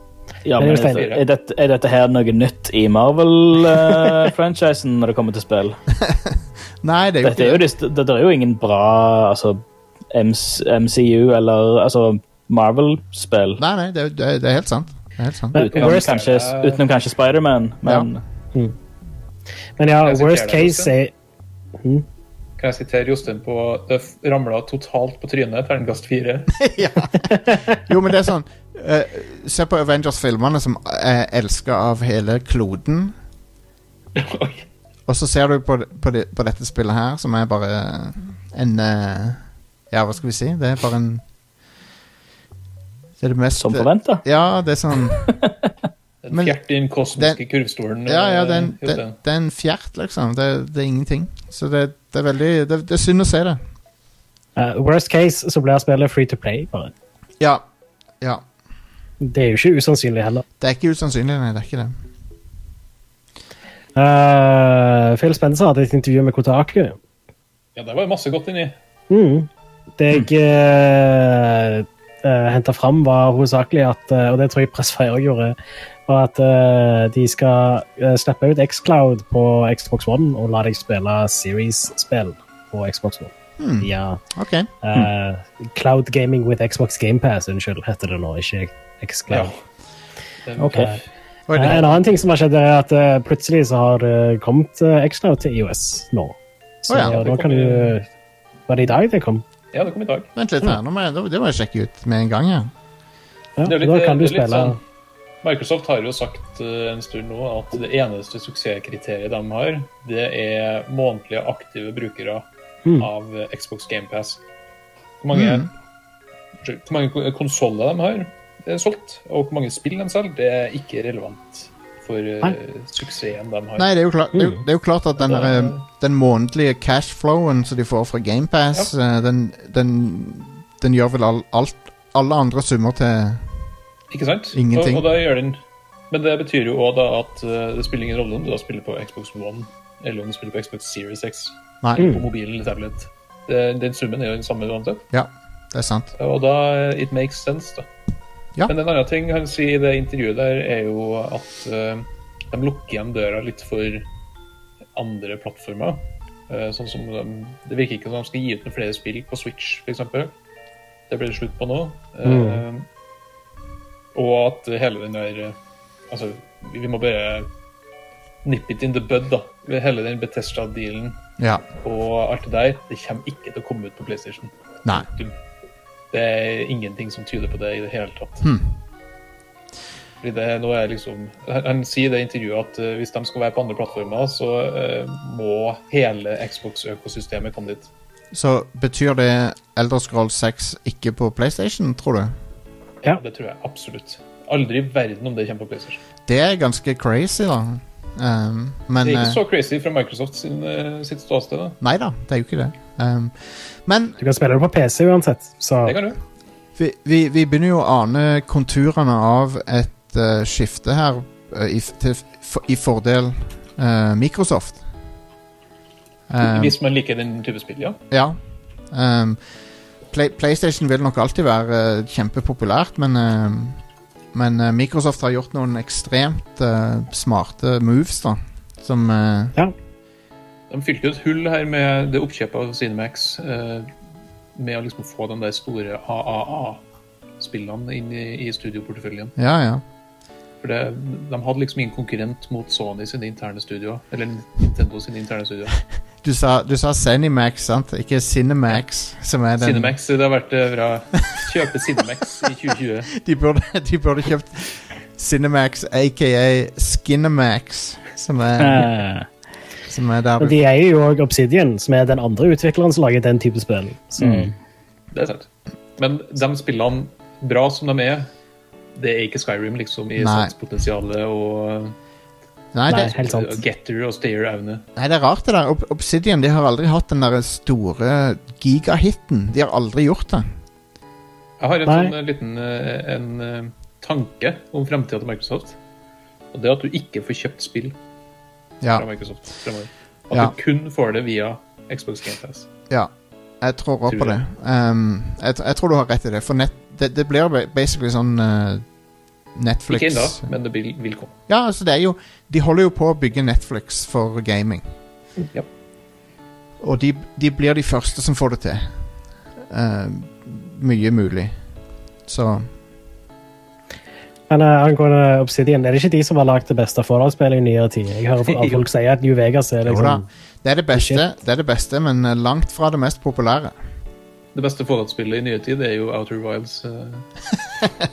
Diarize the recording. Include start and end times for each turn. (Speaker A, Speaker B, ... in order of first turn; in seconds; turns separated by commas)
Speaker A: 0.4-5.8, Speaker B: 0.6-1.0, Speaker C: 0.7-1.2, Speaker D: 6.0-7.6, Speaker A: 7.2-9.6, Speaker A: 10.1-13.6, Speaker D: 13.6-15.6, Speaker B: 15.5-16.1, Speaker A: 15.6-18.2, Speaker C: 15.7-16.8, Speaker B: 19.8-21.1, Speaker C: 20.0-20.9, Speaker B: 21.8-22.0, Speaker C: 22.6-26.6, Speaker D: 26.6-33.1, Speaker B: 27.3-27.6, Speaker C: 34.1-34.7, Speaker D: 35.1-41.2, Speaker D: 43.2-45.3, Speaker A: 43.6-44.2, Speaker A: 45.4-45.7, Speaker C: 46.2-49.2, Speaker D: 46.3-46.6, Speaker D: 48.0-53.6, Speaker B: 54.5-56.9, Speaker B: 59.2-60.4, Speaker D: 60.6-61.9, Speaker B: 63.9-67.0, Speaker C: 67.8-68.8, Speaker B: 69.1-75.5, Speaker B: 76.1-84.2, Speaker D: 83.6-84.7, Speaker B: 84.8-89.5, Speaker C: 89.3-89.5, Speaker C: 90.5-91.0, Speaker A: 90.6-90.9, Speaker D: 91.5-92.0, Speaker B: 91.5-98.1, Speaker D: 96.9-97.2, Speaker C: 97.0-98.0, Speaker B: 98.7-99.4, Speaker C: 99.7-100.3, Speaker D: 100.3-102.7, Speaker B: 103.6-104.8, Speaker C: 103.6-104.8, Speaker C: 105.4-112.5, Speaker C: 113.0-114.4, Speaker C: 115.2-115.7, Speaker D: 115.3-115.7, Speaker C: 116.6-123.9, Speaker D: 123.8-133.4, Speaker C: 125.2-125.8, Speaker C: 134.1-135.6, Speaker D: 134.5-135.1, Speaker C: 136.1-145.0, Speaker D: 141.8-142.1, Speaker B: 142.0-142.2, Speaker D: 145.1-146.1, Speaker C: 146.2-147.9, Speaker C: 148.7-154.1, Speaker C: 154.9-160.3, Speaker C: 161.1-162.8, Speaker B: 162.2-162.6, Speaker C: 164.1-165.6, Speaker C: 166.1-167.5, Speaker C: 168.4-171.2, Speaker D: 171.4-171.6, Speaker C: 171.8-175.3, Speaker C: 176.1-178.5, Speaker D: 178.4-178.8, Speaker C: 180.2-187.9, Speaker D: 188.3-192.3, Speaker C: 193.0-196.0, Speaker D: 196.2-199.4, Speaker C: 199.0-201.8, Speaker D: 201.8-204.2, Speaker B: 204.2-206.0, Speaker C: 205.8-206.2, Speaker D: 206.8-214.8, Speaker D: 216.3-216.7, Speaker C: 216.4-218.0, Speaker D: 218.1-218.4, Speaker D: 218.9-219.4, Speaker D: 220.1-223.8, Speaker D: 224.3-229.6, Speaker C: 230.7-233.9, Speaker C: 234.6-236.8, Speaker C: 237.4-239.3, Speaker D: 239.4-239.8, Speaker C: 240.6-245.8, Speaker D: 246.2-249.9, Speaker C: 249.6-253.1, Speaker D: 253.1-258.9, Speaker A: 258.6-259.2, Speaker D: 259.9-260.6, Speaker B: 260.4-264.5, Speaker A: 264.2-264.5, Speaker C: 265.1-268.3, Speaker C: 268.9-271.9, Speaker D: 270.2-270.5, Speaker D: 272.7-273.1, Speaker B: 272.9-273.6, Speaker C: 272.9-274.9, Speaker D: 274.9-280.5, Speaker C: 281.6-285.8, Speaker B: 281.9-282.1, Speaker C: 286.5-287.9, Speaker C: 288.9-292.7, Speaker D: 292.9-298.8, Speaker C: 294.1-294.4, Speaker D: 299.5-300.5, Speaker C: 299.9-301.3, Speaker D: 301.5-304.8, Speaker D: 306.8-308.9, Speaker D: 309.6-311.6, Speaker D: 312.2-312.7, Speaker B: 314.5-320.2, Speaker C: 318.5-318.9, Speaker D: 319.8-323.7, Speaker B: 320.9-321.2, Speaker C: 324.5-327.3